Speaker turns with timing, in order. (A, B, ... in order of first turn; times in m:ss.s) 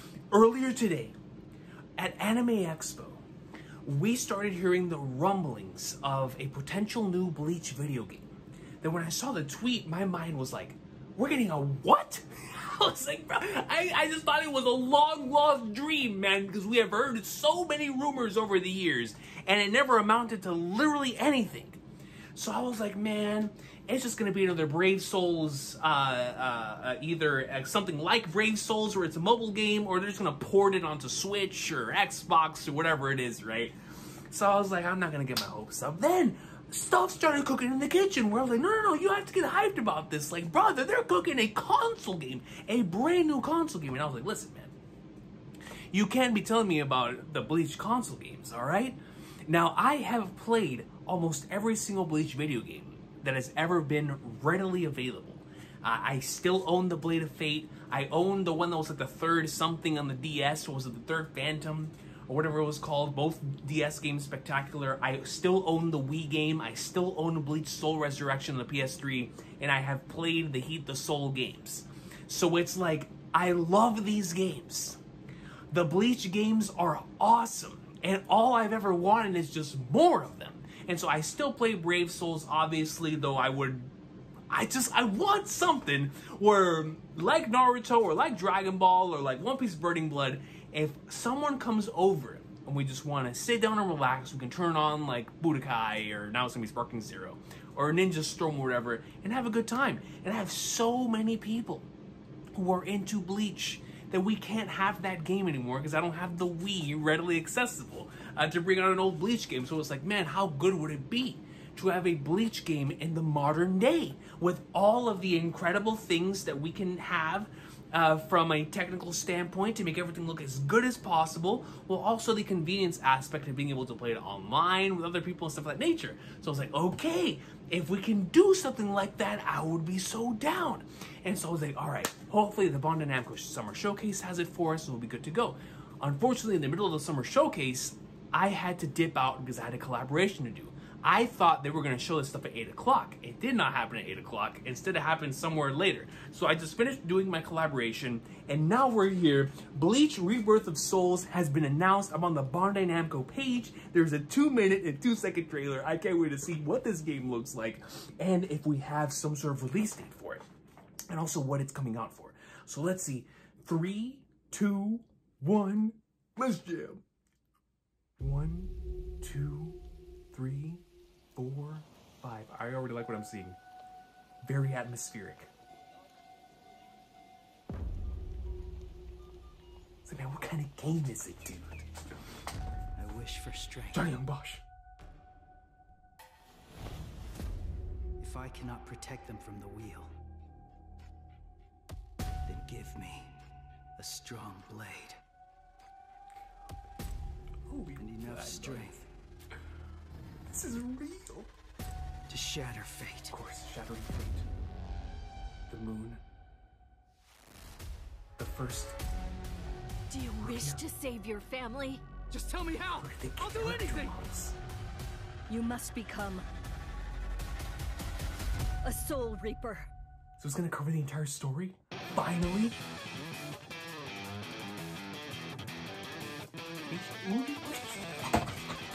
0:00.3-0:01.1 A
0:02.0-0:03.2 A
0:03.8-0:21.8 A
0:22.3-0:33.8 A
0:34.3-0:44.7 A
0:45.9-1:15.0 A
1:15.7-1:23.9 A
1:24.5-1:41.9 A
1:42.5-2:40.4 A
2:41.1-2:47.0 A
2:48.2-2:49.8 A
2:50.3-2:50.8 A
2:51.4-2:53.6 A
2:54.4-2:55.5 A
3:00.0-3:01.9 A
3:03.0-3:04.1 B
3:03.9-3:04.6 A
3:08.2-3:10.1 B
3:12.4-3:13.3 B
3:14.0-3:15.2 B
3:17.7-3:19.0 A
3:18.0-3:19.1 B
3:20.5-3:21.5 A
3:22.3-3:23.4 B
3:23.3-3:24.5 A
3:25.7-3:26.2 A
3:28.4-3:29.0 A
3:30.1-3:32.0 C
3:30.4-3:30.8 A
3:32.4-3:33.0 B
3:33.0-3:34.6 A
3:33.5-3:34.1 C
3:35.5-3:36.4 C
3:38.8-3:39.9 C
3:40.4-3:42.8 A
3:46.8-3:48.3 A